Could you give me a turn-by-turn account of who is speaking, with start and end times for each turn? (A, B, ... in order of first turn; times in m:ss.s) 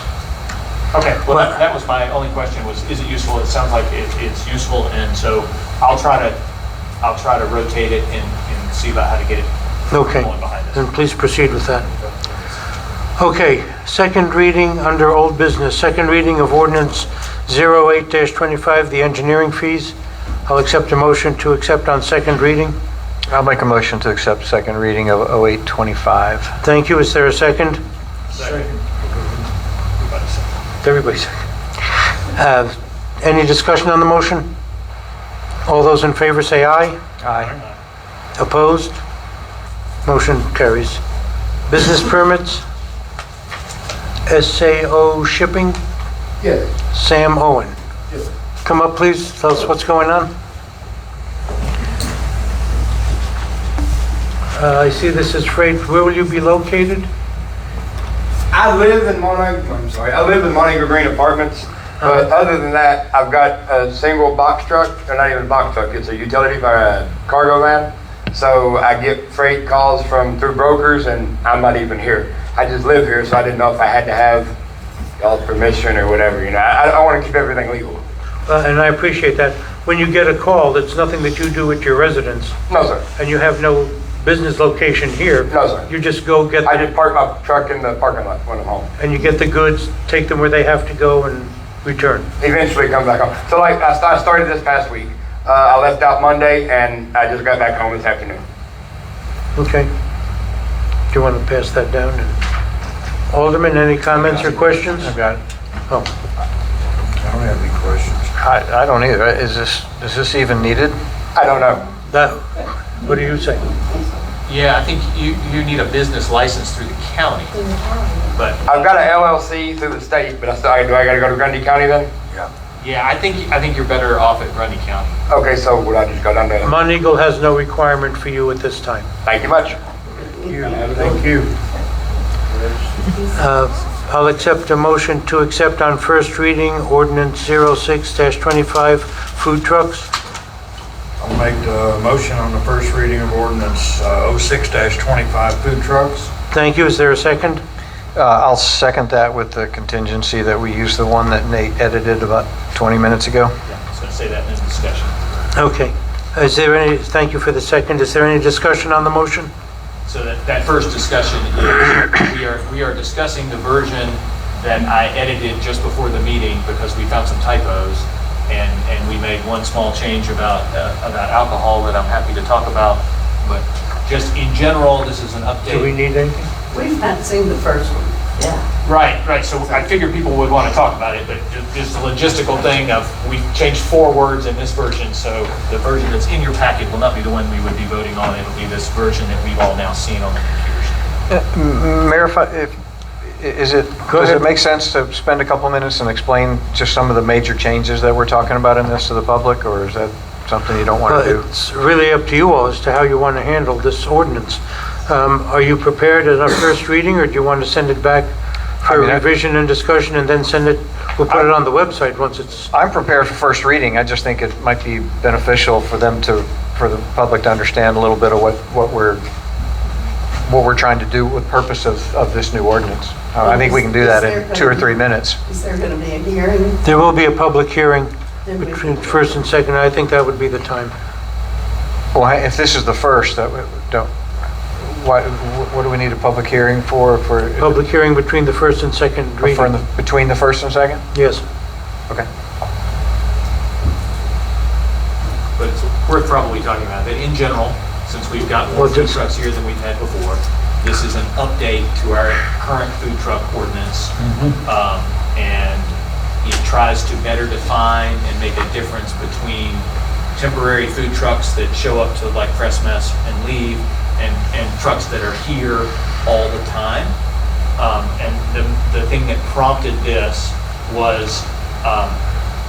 0:00.9-0:06.4 A
0:07.0-0:10.8 A
0:09.9-0:11.9 B
0:13.2-0:19.9 B
0:20.4-0:22.7 B
0:23.3-0:26.6 C
0:26.6-0:27.8 B
0:28.3-0:28.7 A
0:28.3-0:29.5 D
0:30.0-0:30.5 A
0:30.8-0:31.4 B
0:32.3-0:34.4 B
0:35.6-0:37.0 B
0:37.2-0:37.6 C
0:38.4-0:39.0 B
0:40.0-0:41.0 B
0:41.7-0:42.6 B
0:44.3-0:45.8 B
0:46.4-0:46.7 E
0:46.9-0:47.8 B
0:48.6-0:50.3 B
0:54.5-0:57.1 B
0:58.5-1:14.5 E
1:15.2-1:18.0 E
1:18.5-1:22.5 B
1:22.7-1:23.0 E
1:23.2-1:26.8 B
1:25.5-1:25.9 E
1:26.6-1:28.9 E
1:29.0-1:32.2 B
1:32.4-1:38.4 E
1:39.6-1:39.9 B
1:41.1-1:42.3 B
1:43.3-1:45.2 B
1:44.2-1:45.1 D
1:47.2-1:48.4 D
1:48.4-1:51.0 C
1:51.3-1:51.8 E
1:52.1-1:53.6 B
1:54.4-1:57.7 A
1:57.6-1:58.2 F
1:58.3-1:58.9 A
1:58.7-2:02.1 E
2:02.8-2:05.2 A
2:05.3-2:06.7 E
2:06.6-2:09.0 B
2:09.2-2:09.8 E
2:10.4-2:11.5 D
2:12.5-2:12.9 D
2:13.3-2:20.1 B
2:21.2-2:26.3 D
2:26.5-2:27.6 B
2:28.1-2:33.5 C
2:33.6-2:35.2 A
2:35.5-2:39.5 B
2:40.1-2:55.9 A
2:55.7-2:56.5 B
2:56.7-2:58.6 F
2:58.8-3:10.9 A
3:11.3-3:21.4 C
3:14.1-3:14.4 B
3:21.1-3:28.3 B
3:28.8-3:32.7 B
3:28.8-3:29.2 C
3:32.7-3:39.2 C
3:40.4-3:45.4 C
3:43.4-3:44.9 F
3:45.4-3:46.9 F
3:46.8-3:50.9 B
3:48.4-3:49.0 F
3:52.1-3:54.1 C
3:54.7-3:57.8 C
3:57.6-3:59.7 B
3:59.4-4:01.0 C
4:01.1-4:01.4 B
4:05.6-4:27.1 A
4:08.7-4:09.2 B
4:27.8-4:32.2 A